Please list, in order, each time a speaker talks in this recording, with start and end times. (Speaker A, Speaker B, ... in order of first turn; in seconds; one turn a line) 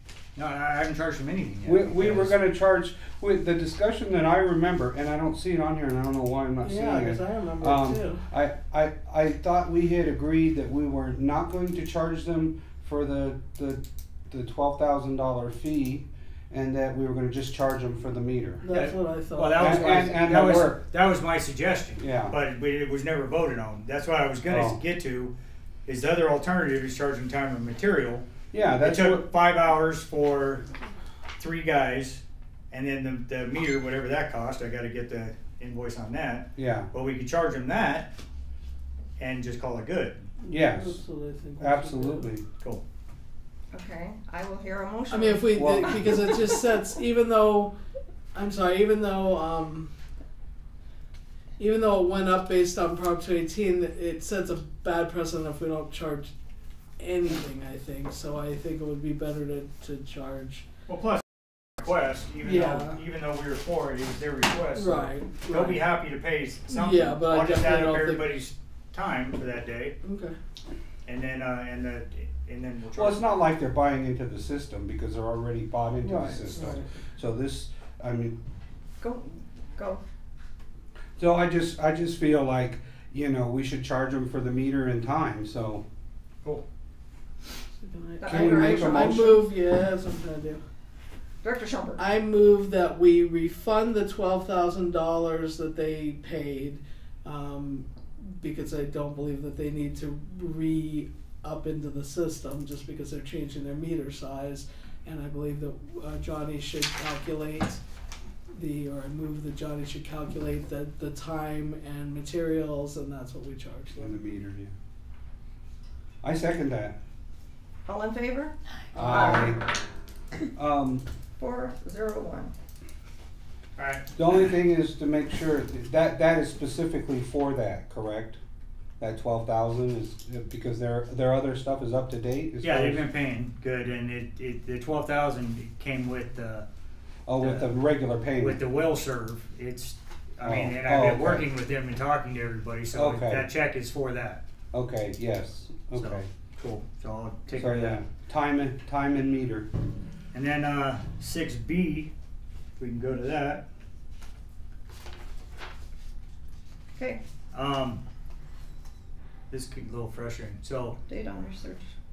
Speaker A: 0.3-2.4
Speaker B: 1.7-18.6
Speaker C: 6.6-8.2
Speaker C: 18.6-19.9
Speaker A: 18.7-25.3
Speaker B: 19.6-20.8
Speaker B: 22.0-22.4
Speaker B: 24.5-24.8
Speaker A: 25.9-28.3
Speaker B: 28.5-29.3
Speaker A: 28.8-30.6
Speaker A: 31.4-38.1
Speaker B: 36.6-36.9
Speaker A: 39.2-40.3
Speaker C: 40.5-42.3
Speaker B: 40.5-41.0
Speaker B: 41.6-42.5
Speaker D: 43.7-46.4
Speaker C: 45.1-47.7
Speaker B: 45.5-46.2
Speaker C: 48.3-49.9
Speaker C: 51.6-56.3
Speaker C: 57.0-60.6
Speaker A: 60.9-70.0
Speaker C: 62.4-63.0
Speaker C: 64.8-65.8
Speaker C: 66.7-68.3
Speaker C: 70.0-70.3
Speaker A: 71.1-73.2
Speaker B: 72.9-78.4
Speaker C: 76.0-76.9
Speaker D: 79.0-80.0
Speaker B: 81.2-85.8
Speaker C: 87.8-90.6
Speaker D: 88.2-89.3
Speaker B: 88.3-89.4
Speaker D: 91.4-92.0
Speaker C: 92.0-107.8
Speaker C: 108.5-114.2
Speaker B: 114.0-114.7
Speaker B: 116.2-117.0
Speaker D: 117.9-119.5
Speaker C: 118.9-119.5
Speaker B: 119.0-119.6
Speaker B: 120.5-121.0
Speaker D: 121.4-122.5
Speaker A: 123.8-124.0
Speaker B: 124.2-128.4
Speaker B: 129.0-133.1
Speaker A: 132.6-136.7
Speaker B: 137.3-138.6
Speaker A: 137.4-137.7
Speaker A: 138.4-144.4
Speaker B: 140.4-141.5
Speaker B: 142.9-143.5
Speaker B: 144.7-146.3
Speaker A: 145.9-148.0
Speaker B: 147.6-149.7
Speaker A: 150.3-152.1
Speaker A: 152.8-153.7
Speaker D: 157.0-157.2
Speaker A: 157.5-158.0
Speaker A: 159.5-161.0
Speaker D: 161.1-161.9